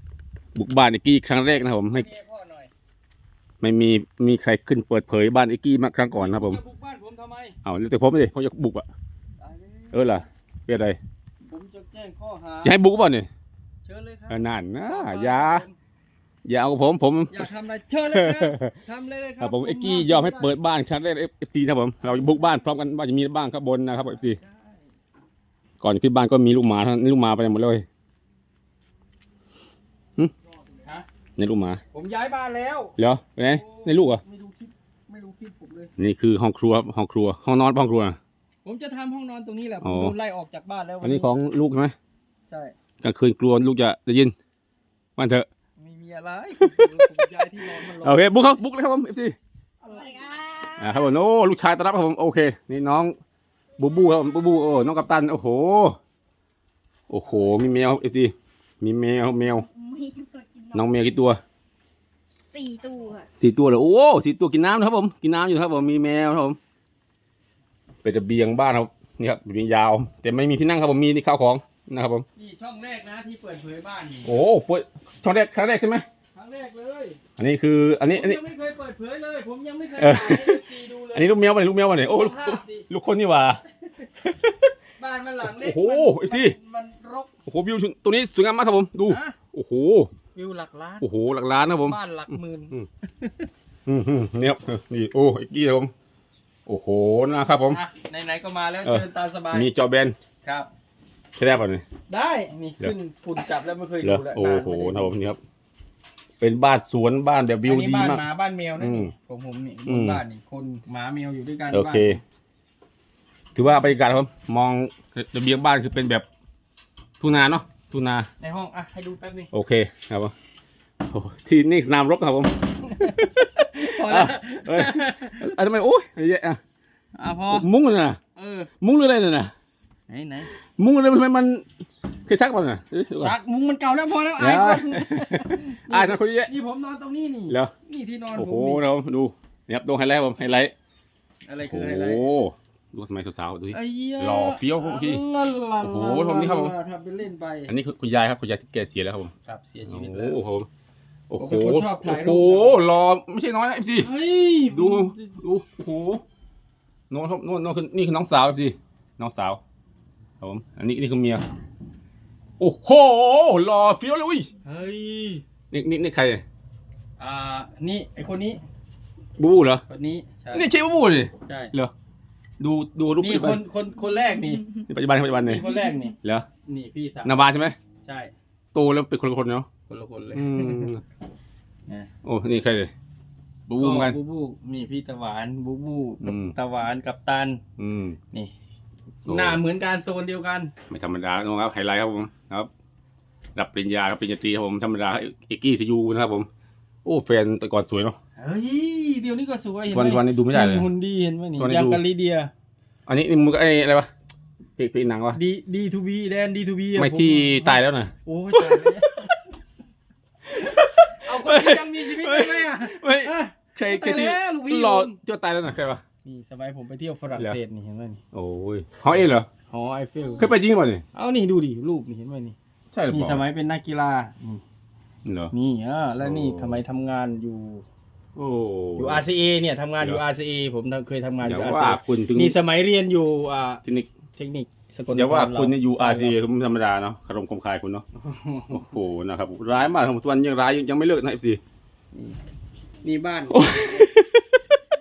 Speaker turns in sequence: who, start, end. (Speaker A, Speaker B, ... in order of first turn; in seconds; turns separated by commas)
Speaker A: 0.5-2.1, Speaker B: 1.9-2.7, Speaker A: 3.6-6.6, Speaker B: 6.1-7.5, Speaker A: 7.6-8.9, Speaker B: 9.4-10.0, Speaker A: 9.9-11.0, Speaker B: 11.4-12.8, Speaker A: 12.6-13.3, Speaker B: 13.8-15.8, Speaker A: 14.3-15.6, Speaker A: 16.4-17.5, Speaker B: 17.3-20.5, Speaker A: 18.1-18.7, Speaker A: 19.4-24.4, Speaker B: 24.0-24.9, Speaker A: 25.8-27.8, Speaker B: 30.6-31.1, Speaker A: 31.4-31.8, Speaker B: 31.9-35.9, Speaker A: 33.0-34.2, Speaker A: 36.0-38.2, Speaker B: 38.6-41.3, Speaker A: 39.8-40.1, Speaker A: 41.0-41.9, Speaker B: 42.5-42.7, Speaker A: 43.0-44.3, Speaker A: 45.2-45.5, Speaker B: 45.8-48.4, Speaker A: 46.6-49.4, Speaker B: 49.8-50.2, Speaker C: 49.9-51.0, Speaker A: 50.8-53.1, Speaker A: 53.8-56.0, Speaker A: 57.1-59.7, Speaker C: 59.6-60.8, Speaker A: 60.7-61.4, Speaker C: 62.5-63.3, Speaker A: 63.4-66.6, Speaker A: 68.0-72.2, Speaker B: 72.3-74.3, Speaker A: 74.2-76.0, Speaker B: 76.3-77.2, Speaker A: 77.4-78.4, Speaker B: 78.1-81.3, Speaker A: 80.0-83.6, Speaker B: 81.9-82.9, Speaker B: 85.0-87.3, Speaker A: 85.4-86.5, Speaker A: 87.5-90.1, Speaker B: 89.1-89.4, Speaker B: 90.3-91.0, Speaker A: 91.0-92.0, Speaker B: 91.7-93.5, Speaker A: 93.8-95.9, Speaker A: 96.7-97.8, Speaker B: 97.7-99.7, Speaker A: 98.8-100.2, Speaker B: 100.4-100.7, Speaker A: 101.4-101.8, Speaker B: 102.1-105.1, Speaker A: 104.0-105.4, Speaker A: 106.4-108.2, Speaker B: 107.6-112.2, Speaker A: 108.8-109.1, Speaker A: 109.8-110.2, Speaker A: 111.7-112.2, Speaker A: 113.5-116.2, Speaker A: 117.2-118.3, Speaker B: 118.4-119.5, Speaker A: 119.5-120.3, Speaker A: 121.0-126.6, Speaker B: 122.8-125.5, Speaker B: 127.2-127.7, Speaker A: 127.5-128.2, Speaker B: 128.3-128.7, Speaker A: 128.8-129.5, Speaker B: 130.1-130.5, Speaker A: 130.8-131.6, Speaker A: 132.2-133.3, Speaker B: 133.2-138.8, Speaker A: 134.4-136.5, Speaker A: 138.3-140.7, Speaker B: 141.5-142.2, Speaker A: 141.6-145.2, Speaker B: 143.7-147.7, Speaker A: 145.8-146.7, Speaker A: 147.7-149.3, Speaker B: 149.4-150.4, Speaker A: 149.9-150.7, Speaker A: 151.3-154.1, Speaker B: 151.4-152.8, Speaker B: 154.0-155.3, Speaker A: 154.7-156.2, Speaker A: 157.1-159.6, Speaker A: 160.4-161.4, Speaker A: 162.6-164.5, Speaker B: 164.6-165.4, Speaker A: 165.7-166.4, Speaker B: 167.2-168.6, Speaker A: 169.4-169.8, Speaker B: 169.9-170.7, Speaker A: 170.5-171.9, Speaker B: 171.4-171.7, Speaker A: 172.6-173.6, Speaker B: 173.2-174.8, Speaker A: 174.8-176.4, Speaker B: 175.4-177.5, Speaker A: 177.2-177.8, Speaker B: 178.0-178.3, Speaker A: 178.7-179.7, Speaker B: 179.9-180.9, Speaker A: 180.3-181.0, Speaker A: 182.2-182.9, Speaker A: 183.7-184.2, Speaker B: 183.8-187.6, Speaker A: 186.2-186.5, Speaker A: 187.8-188.2, Speaker B: 189.2-190.7, Speaker A: 189.3-189.6, Speaker A: 190.9-192.7, Speaker A: 193.6-196.5, Speaker A: 197.0-198.2, Speaker B: 198.4-202.5, Speaker A: 199.9-200.9, Speaker A: 201.6-202.0, Speaker A: 203.1-204.1, Speaker A: 204.8-205.4, Speaker B: 205.3-209.3, Speaker A: 206.9-209.3, Speaker A: 210.5-216.0, Speaker B: 211.2-215.2, Speaker B: 216.2-218.2, Speaker A: 218.3-219.5, Speaker B: 219.7-220.5, Speaker A: 220.4-221.0, Speaker B: 221.1-222.6, Speaker A: 222.9-223.4, Speaker B: 223.1-224.6, Speaker A: 225.2-225.5, Speaker B: 225.5-227.8, Speaker A: 226.2-226.8, Speaker A: 228.3-229.2, Speaker B: 229.0-233.8, Speaker A: 231.4-232.6, Speaker A: 233.8-234.1, Speaker B: 234.3-236.4, Speaker A: 235.1-238.0, Speaker B: 238.2-238.9, Speaker A: 238.7-241.6, Speaker B: 242.1-242.4, Speaker B: 243.0-244.1, Speaker A: 243.5-244.8